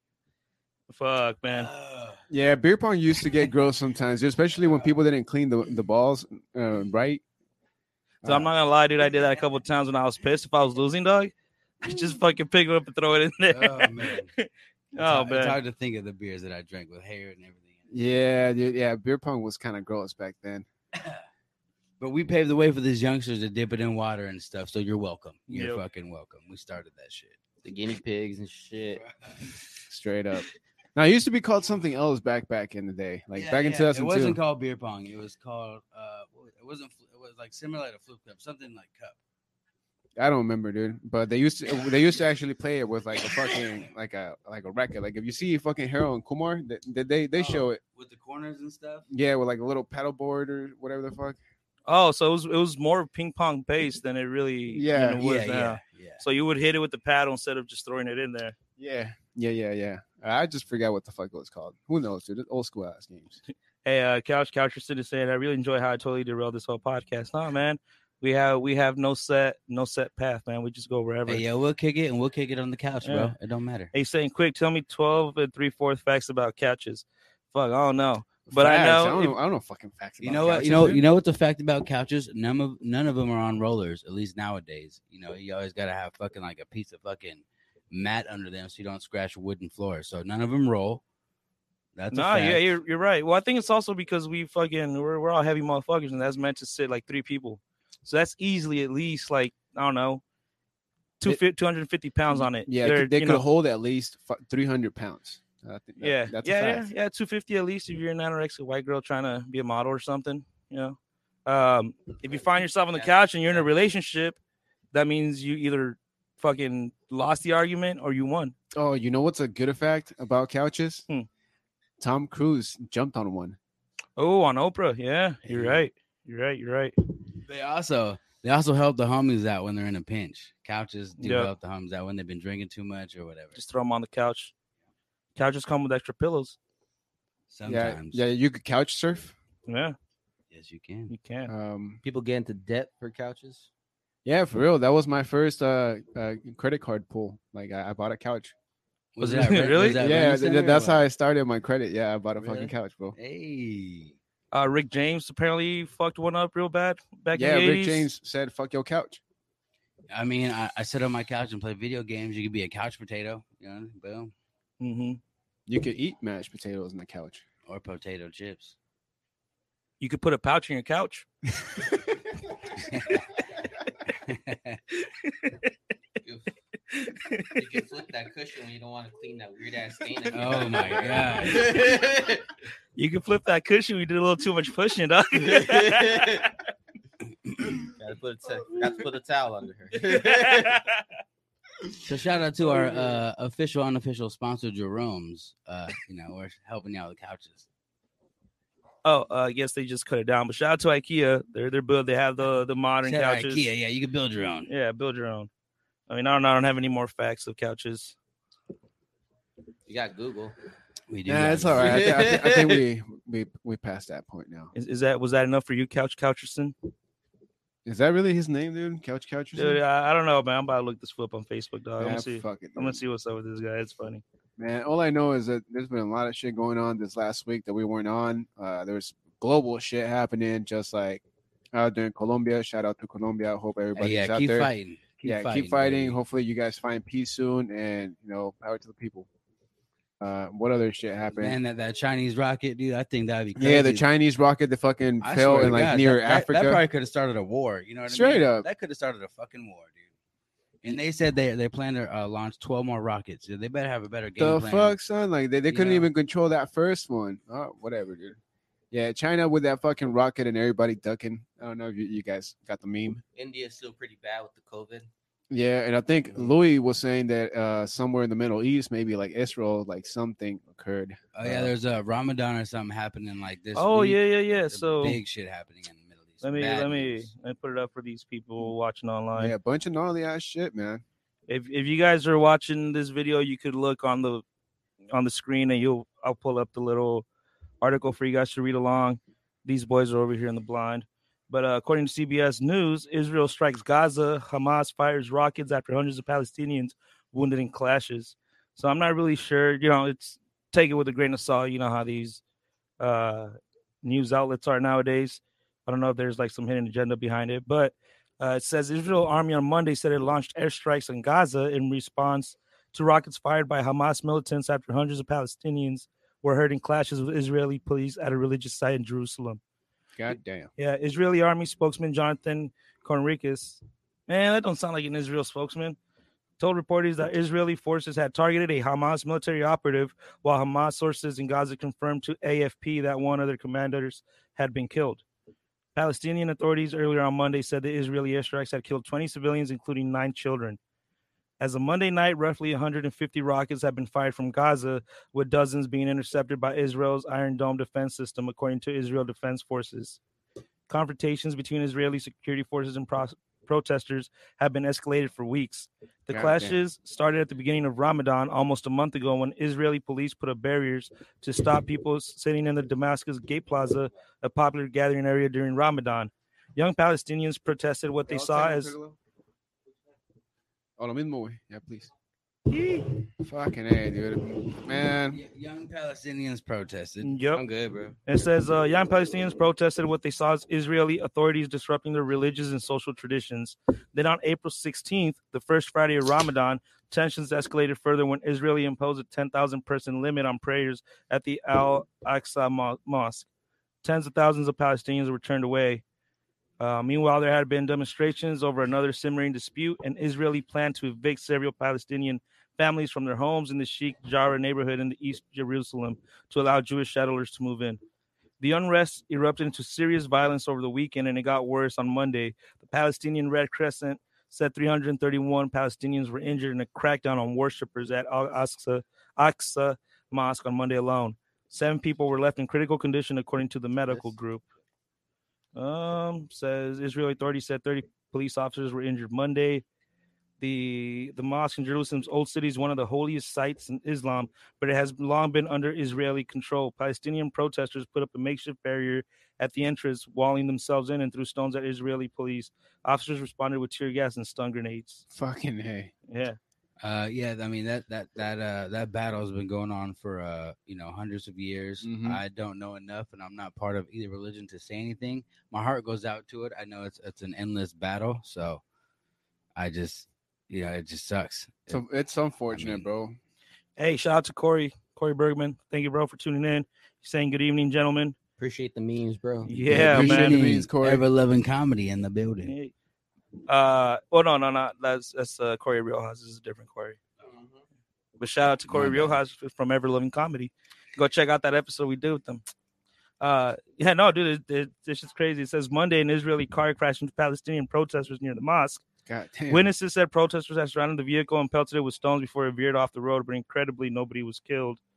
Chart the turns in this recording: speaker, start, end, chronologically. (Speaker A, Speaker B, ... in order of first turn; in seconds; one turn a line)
Speaker A: 0.9-1.7
Speaker B: 1.5-2.2
Speaker C: 2.3-7.2
Speaker C: 8.2-8.5
Speaker A: 8.2-15.6
Speaker B: 13.5-14.3
Speaker B: 15.0-17.9
Speaker C: 17.9-20.7
Speaker B: 20.9-21.2
Speaker B: 22.0-27.4
Speaker A: 25.5-25.8
Speaker D: 27.6-29.0
Speaker B: 29.0-29.9
Speaker C: 29.9-34.4
Speaker B: 33.3-39.2
Speaker C: 40.2-47.8
Speaker B: 47.4-49.1
Speaker C: 49.1-51.4
Speaker A: 51.9-58.5
Speaker C: 54.7-55.2
Speaker B: 55.2-56.2
Speaker C: 58.8-63.4
Speaker A: 63.8-71.4
Speaker B: 71.3-73.9
Speaker A: 73.0-73.3
Speaker A: 73.9-79.3
Speaker C: 78.5-81.0
Speaker B: 80.2-91.0
Speaker B: 92.0-92.6
Speaker A: 92.1-100.2
Speaker A: 101.2-103.4
Speaker C: 102.3-106.9
Speaker A: 106.0-114.4
Speaker D: 112.3-113.7
Speaker A: 114.9-118.5
Speaker C: 118.7-121.1
Speaker C: 122.0-123.6
Speaker A: 124.2-127.0
Speaker B: 125.5-125.8
Speaker B: 127.4-133.6
Speaker A: 131.2-131.5
Speaker A: 133.6-134.5
Speaker A: 135.4-136.6
Speaker B: 137.5-138.2
Speaker C: 137.7-139.4
Speaker A: 139.7-140.0
Speaker B: 140.5-141.1
Speaker A: 141.1-141.5
Speaker C: 141.5-142.0
Speaker D: 142.0-143.7
Speaker C: 144.2-148.5
Speaker B: 149.2-151.0
Speaker A: 149.2-150.3
Speaker C: 149.9-153.2
Speaker B: 152.4-154.2
Speaker A: 154.5-158.1
Speaker C: 157.3-159.2
Speaker B: 160.1-164.3
Speaker A: 164.8-165.2
Speaker C: 165.7-167.4
Speaker B: 167.7-168.8
Speaker A: 170.0-171.3
Speaker B: 172.7-173.2
Speaker B: 174.1-174.8
Speaker A: 175.0-175.7
Speaker D: 176.2-176.5
Speaker A: 176.9-177.6
Speaker D: 177.6-182.4
Speaker B: 180.3-181.7
Speaker A: 183.0-186.3
Speaker D: 185.4-186.5
Speaker B: 187.5-187.8
Speaker D: 187.9-190.7
Speaker A: 190.0-191.0
Speaker B: 192.0-197.7
Speaker A: 199.0-203.7
Speaker B: 203.0-204.7
Speaker A: 204.7-205.5
Speaker A: 206.1-208.2
Speaker D: 209.9-210.6
Speaker B: 211.1-212.2
Speaker C: 211.3-214.7
Speaker D: 211.8-212.8
Speaker A: 214.8-216.8
Speaker C: 217.8-219.8
Speaker A: 219.6-224.2
Speaker C: 222.0-223.0
Speaker C: 224.6-234.7
Speaker B: 234.0-236.2
Speaker C: 235.2-239.3
Speaker C: 240.2-241.6
Speaker B: 241.4-244.1
Speaker C: 243.6-246.8
Speaker B: 245.2-250.0
Speaker C: 248.1-248.7
Speaker B: 250.8-255.0
Speaker C: 254.4-258.4
Speaker B: 255.7-256.1
Speaker C: 258.9-263.2
Speaker D: 263.4-265.1
Speaker C: 265.5-271.7
Speaker B: 271.3-277.3
Speaker A: 273.8-275.2
Speaker A: 276.4-279.5
Speaker C: 279.4-281.0
Speaker A: 281.5-284.4
Speaker A: 285.1-287.3
Speaker A: 287.8-302.4
Speaker A: 303.0-319.6
Speaker C: 320.2-320.7
Speaker A: 320.8-326.0
Speaker A: 326.6-335.2
Speaker A: 335.9-340.8
Speaker A: 341.6-350.2
Speaker A: 350.9-368.9
Speaker C: 356.3-356.8
Speaker C: 368.3-369.2
Speaker C: 371.0-372.1
Speaker A: 372.7-373.1
Speaker C: 373.4-375.4
Speaker B: 375.3-377.4
Speaker A: 377.2-377.6
Speaker D: 377.5-378.2
Speaker A: 378.3-393.5
Speaker A: 394.0-396.0
Speaker A: 396.8-408.0
Speaker A: 408.6-424.6
Speaker A: 425.8-429.8
Speaker A: 430.6-445.2
Speaker C: 445.3-446.1
Speaker A: 446.3-446.6
Speaker B: 447.0-458.8
Speaker C: 452.0-452.4
Speaker B: 459.8-462.0
Speaker C: 461.9-463.4
Speaker B: 462.7-463.1
Speaker A: 464.0-468.4
Speaker D: 468.6-469.9
Speaker A: 469.6-470.6
Speaker B: 469.9-472.7
Speaker C: 469.9-471.2
Speaker A: 472.6-472.9
Speaker A: 473.7-477.2
Speaker D: 477.4-477.8
Speaker A: 478.4-482.6
Speaker B: 478.9-479.4
Speaker A: 483.4-489.0
Speaker C: 489.3-489.9
Speaker A: 489.7-495.0